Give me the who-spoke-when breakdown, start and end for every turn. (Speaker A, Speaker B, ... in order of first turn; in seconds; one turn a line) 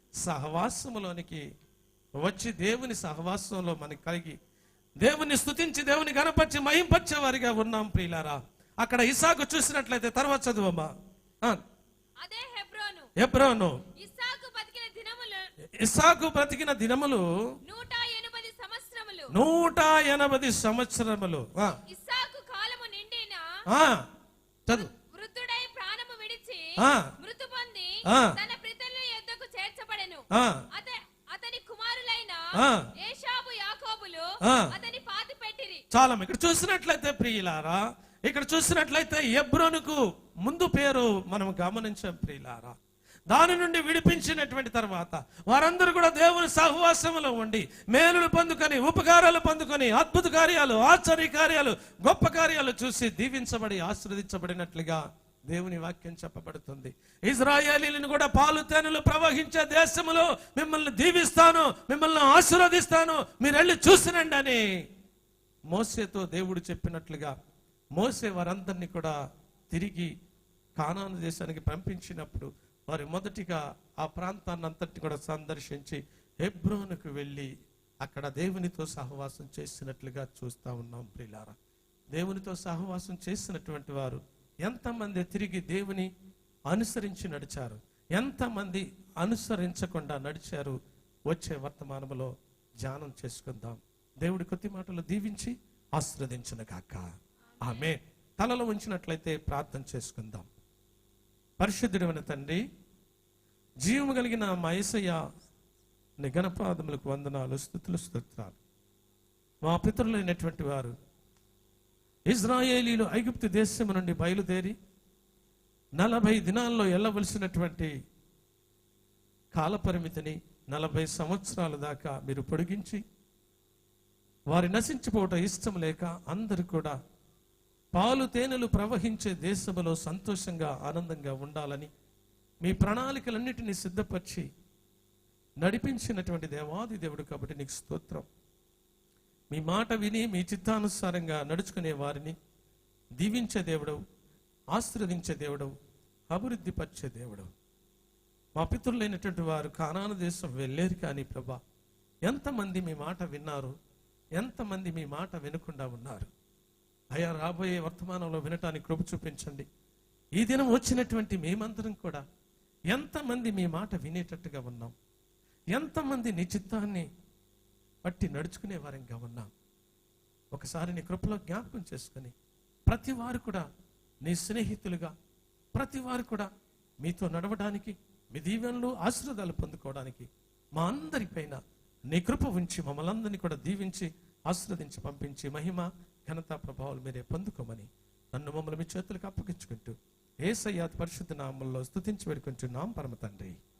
Speaker A: 0.2-1.4
Speaker A: 2.2-4.3
Speaker A: 5.0-10.9
Speaker B: 12.2-13.1
Speaker A: 13.2-13.8
Speaker B: 13.9-15.5
Speaker A: 15.8-17.2
Speaker B: 17.6-19.3
Speaker A: 19.3-21.8
Speaker B: 21.9-23.5
Speaker A: 23.7-24.0
Speaker B: 24.7-35.8
Speaker A: 26.8-27.1
Speaker A: 28.1-28.3
Speaker A: 30.3-30.6
Speaker A: 32.5-32.9
Speaker A: 34.4-34.7
Speaker A: 35.9-42.8
Speaker A: 43.3-64.6
Speaker A: 65.7-67.3
Speaker A: 68.0-69.1
Speaker A: 69.7-70.1
Speaker A: 70.8-77.5
Speaker A: 78.0-81.5
Speaker A: 82.1-86.1
Speaker A: 86.7-90.8
Speaker A: 91.3-97.1
Speaker B: 97.5-98.0
Speaker A: 97.6-100.5
Speaker A: 101.6-102.6
Speaker A: 103.8-105.2
Speaker A: 106.2-108.6
Speaker A: 109.6-110.9
Speaker A: 112.3-114.7
Speaker A: 116.0-117.9
Speaker A: 119.5-123.0
Speaker A: 124.5-127.0
Speaker A: 127.9-131.9
Speaker A: 132.6-134.5
Speaker A: 135.6-138.2
Speaker A: 139.5-142.3
Speaker A: 143.2-144.0
Speaker A: 144.7-145.7
Speaker A: 146.3-147.5
Speaker A: 148.6-151.6
Speaker A: 152.2-153.7
Speaker A: 154.4-156.3
Speaker A: 157.1-159.7
Speaker A: 160.4-162.2
Speaker A: 162.9-164.9
Speaker A: 165.7-167.1
Speaker A: 168.0-169.5
Speaker A: 170.5-172.3
Speaker A: 172.9-173.7
Speaker A: 174.2-175.1
Speaker A: 175.7-176.5
Speaker A: 177.0-181.6
Speaker A: 182.1-193.6